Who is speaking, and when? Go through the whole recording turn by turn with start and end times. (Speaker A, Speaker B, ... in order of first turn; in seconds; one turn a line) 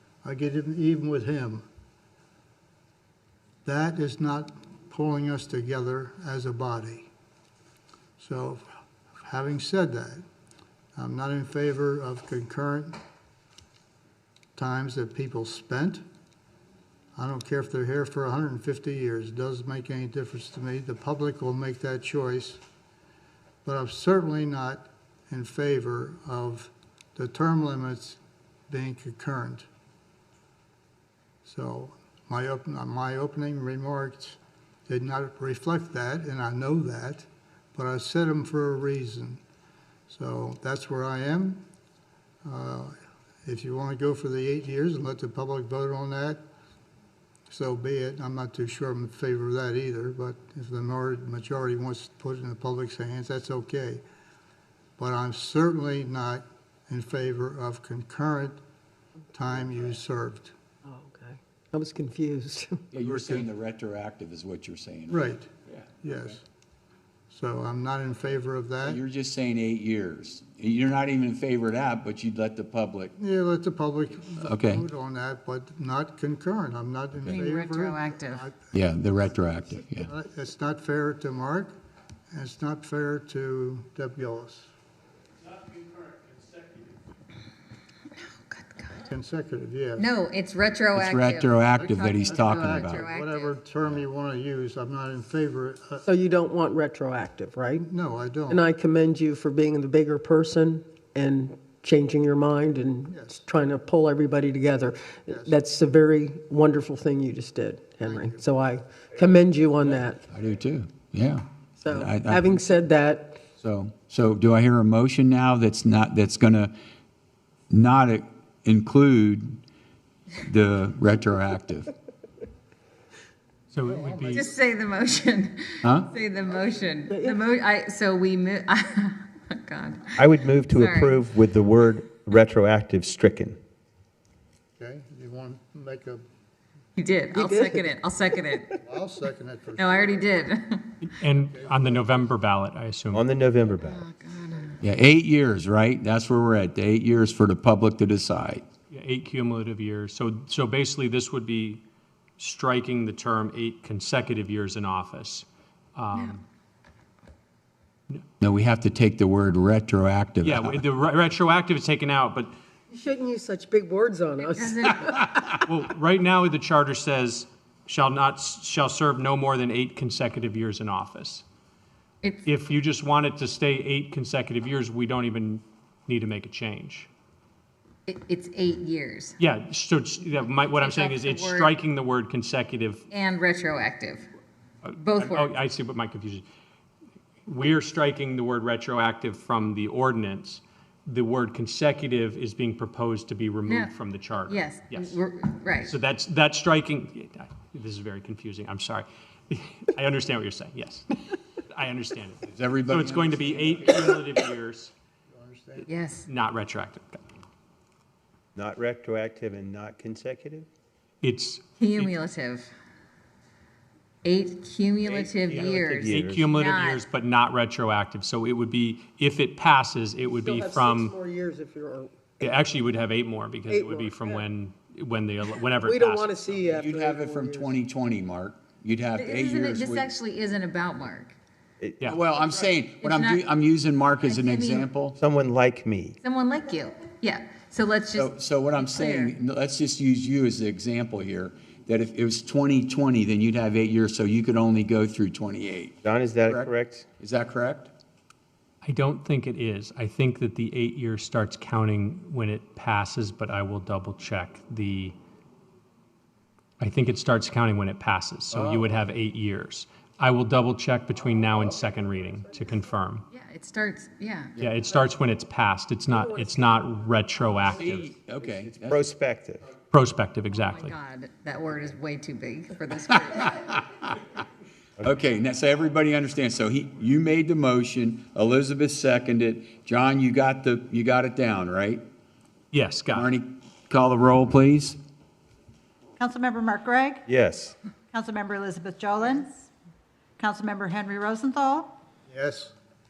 Speaker A: 0.2-1.6
Speaker A: 3.6-7.1
Speaker A: 8.2-8.7
Speaker A: 9.2-10.2
Speaker A: 11.0-13.0
Speaker A: 14.6-16.0
Speaker A: 17.2-22.6
Speaker A: 23.6-29.7
Speaker A: 31.4-39.4
Speaker A: 40.1-41.6
Speaker A: 42.4-46.4
Speaker A: 47.5-54.0
Speaker A: 55.0-58.6
Speaker A: 59.3-60.5
Speaker B: 60.9-62.8
Speaker C: 62.9-66.2
Speaker A: 63.0-63.5
Speaker A: 65.1-65.5
Speaker A: 66.0-66.4
Speaker A: 67.3-69.0
Speaker C: 68.8-73.1
Speaker A: 73.2-78.6
Speaker C: 74.4-74.8
Speaker D: 77.3-78.4
Speaker C: 78.7-80.1
Speaker A: 80.0-81.7
Speaker A: 82.3-84.7
Speaker D: 88.2-89.0
Speaker A: 89.0-90.1
Speaker D: 90.0-93.6
Speaker C: 90.9-93.1
Speaker A: 92.2-96.0
Speaker B: 96.0-97.9
Speaker A: 97.9-98.6
Speaker B: 98.5-110.2
Speaker A: 103.1-103.4
Speaker A: 105.3-105.5
Speaker A: 108.0-108.5
Speaker C: 110.3-112.7
Speaker B: 111.8-113.4
Speaker C: 113.6-116.7
Speaker C: 117.7-119.6
Speaker C: 120.4-121.9
Speaker E: 123.7-124.5
Speaker A: 123.8-124.5
Speaker D: 124.3-131.2
Speaker C: 125.8-126.1
Speaker B: 127.1-127.4
Speaker F: 130.2-133.6
Speaker A: 134.8-136.2
Speaker D: 137.0-138.8
Speaker B: 137.3-138.8
Speaker A: 138.8-140.5
Speaker D: 139.8-141.1
Speaker E: 141.0-143.2
Speaker A: 141.2-142.3
Speaker F: 143.1-144.0
Speaker D: 143.8-144.8
Speaker C: 144.8-148.6
Speaker E: 148.9-151.8
Speaker E: 152.4-156.4
Speaker C: 158.4-160.8
Speaker E: 160.4-162.5
Speaker B: 162.9-165.4
Speaker D: 164.4-165.3
Speaker E: 165.6-171.4
Speaker E: 172.4-177.1
Speaker D: 178.1-179.4
Speaker E: 179.4-183.0
Speaker D: 180.4-181.7
Speaker D: 183.1-184.3
Speaker E: 184.8-186.4
Speaker D: 185.0-185.6
Speaker E: 187.5-195.2
Speaker D: 193.7-193.9
Speaker D: 194.4-195.9
Speaker E: 195.8-204.9
Speaker C: 202.4-203.8
Speaker A: 205.3-205.9
Speaker D: 205.8-206.3
Speaker E: 206.3-207.2
Speaker F: 208.5-210.7
Speaker E: 211.2-212.2
Speaker D: 211.8-212.7
Speaker D: 214.2-217.0
Speaker E: 215.5-221.1
Speaker F: 216.0-216.5
Speaker B: 220.3-222.5
Speaker E: 222.4-226.3
Speaker B: 223.7-224.4
Speaker B: 225.8-227.8
Speaker C: 226.7-230.1
Speaker D: 229.2-231.4
Speaker F: 231.8-232.1
Speaker C: 232.0-235.2
Speaker D: 233.0-233.4
Speaker D: 234.2-234.9
Speaker F: 235.2-236.2
Speaker D: 236.2-239.3
Speaker C: 238.1-247.9
Speaker F: 246.0-247.0
Speaker E: 248.8-255.1
Speaker E: 256.8-263.2
Speaker C: 258.5-259.0
Speaker D: 263.3-264.6
Speaker E: 264.6-268.1
Speaker B: 266.2-266.6
Speaker C: 267.7-269.1
Speaker F: 268.4-269.6
Speaker E: 269.9-270.9
Speaker D: 270.5-273.6
Speaker C: 273.5-274.1
Speaker C: 275.0-282.0
Speaker E: 282.7-283.3
Speaker C: 283.1-285.0
Speaker G: 286.2-287.2
Speaker F: 287.3-287.7
Speaker G: 288.1-289.7
Speaker G: 290.4-291.9
Speaker A: 292.3-292.7